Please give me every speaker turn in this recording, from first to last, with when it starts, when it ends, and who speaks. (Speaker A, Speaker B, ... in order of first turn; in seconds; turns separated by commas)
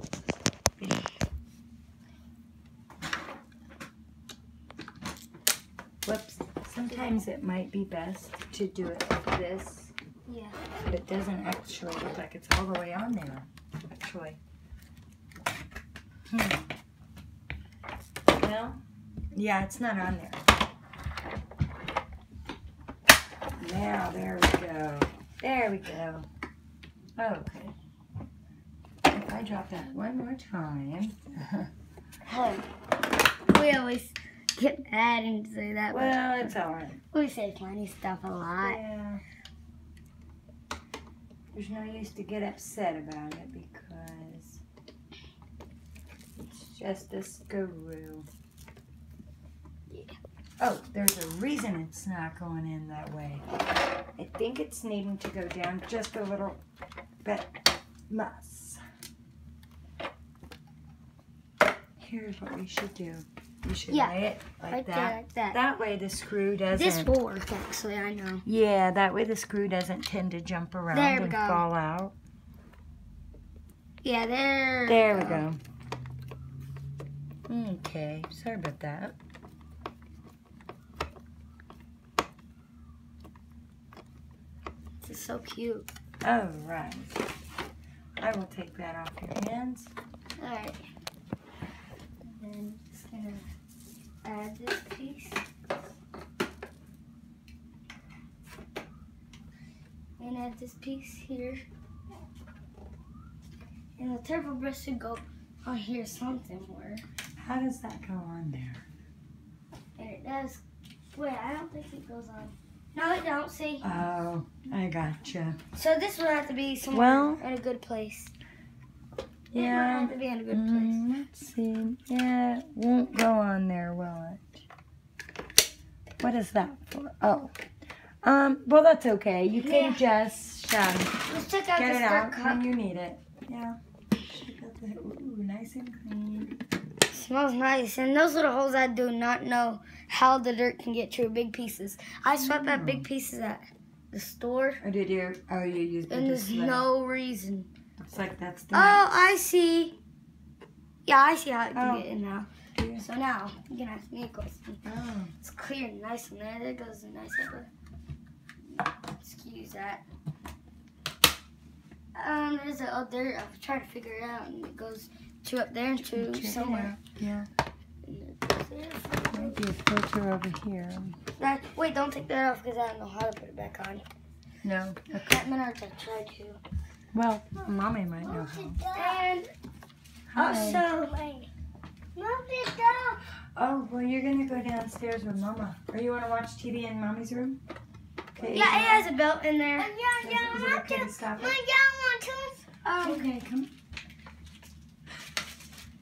Speaker A: 6.0-9.9, Speaker B: 10.3-10.6, Speaker A: 10.9-14.4, Speaker A: 16.3-16.6, Speaker A: 18.3-20.4, Speaker A: 23.6-26.3, Speaker A: 27.2-27.8, Speaker A: 29.1-31.7, Speaker B: 32.3-32.7, Speaker B: 33.5-36.5, Speaker A: 35.9-37.0, Speaker B: 37.1-38.8, Speaker A: 38.6-39.2, Speaker A: 41.5-44.6, Speaker A: 46.5-48.3, Speaker A: 50.6-53.5, Speaker A: 54.2-56.6, Speaker A: 57.2-57.6, Speaker A: 58.1-58.8, Speaker A: 62.0-67.1, Speaker B: 63.9-65.6, Speaker B: 66.7-68.5, Speaker A: 68.5-72.1, Speaker B: 70.9-71.7, Speaker B: 74.0-75.5, Speaker A: 74.9-75.6, Speaker A: 77.5-79.2, Speaker B: 85.0-85.9, Speaker A: 86.2-87.2, Speaker A: 88.2-89.9, Speaker B: 90.4-90.8, Speaker B: 92.2-93.5, Speaker B: 94.2-95.4, Speaker B: 100.2-101.6, Speaker B: 104.0-107.0, Speaker A: 107.4-108.8, Speaker B: 110.0-110.6, Speaker B: 111.1-113.9, Speaker A: 113.8-115.6, Speaker B: 115.7-118.3, Speaker A: 116.9-117.4, Speaker A: 119.5-124.7, Speaker B: 119.5-121.0, Speaker A: 126.2-127.5, Speaker A: 128.2-131.1, Speaker B: 129.6-130.1, Speaker B: 131.3-132.7, Speaker A: 131.8-136.6, Speaker B: 137.1-144.8, Speaker A: 142.4-143.1, Speaker A: 144.8-146.9, Speaker B: 146.1-147.7, Speaker A: 148.0-149.0, Speaker B: 148.7-150.0, Speaker B: 151.1-154.8, Speaker A: 151.8-152.1, Speaker A: 152.8-153.1, Speaker A: 154.8-155.3, Speaker B: 155.4-157.7, Speaker B: 159.2-160.0, Speaker B: 162.2-167.0, Speaker A: 166.1-167.5, Speaker B: 168.0-169.6, Speaker A: 169.3-171.2, Speaker B: 171.4-174.1, Speaker A: 174.6-175.4, Speaker B: 175.1-176.6, Speaker A: 177.1-178.8, Speaker C: 178.2-179.3, Speaker B: 178.9-179.5, Speaker A: 180.3-180.9, Speaker B: 180.4-181.1, Speaker C: 180.9-181.5, Speaker C: 182.2-183.2, Speaker A: 183.6-187.6, Speaker A: 188.3-189.1, Speaker C: 188.4-189.0, Speaker B: 188.5-189.9, Speaker C: 189.8-192.6, Speaker A: 190.2-191.6, Speaker B: 192.8-193.3, Speaker A: 193.0-193.7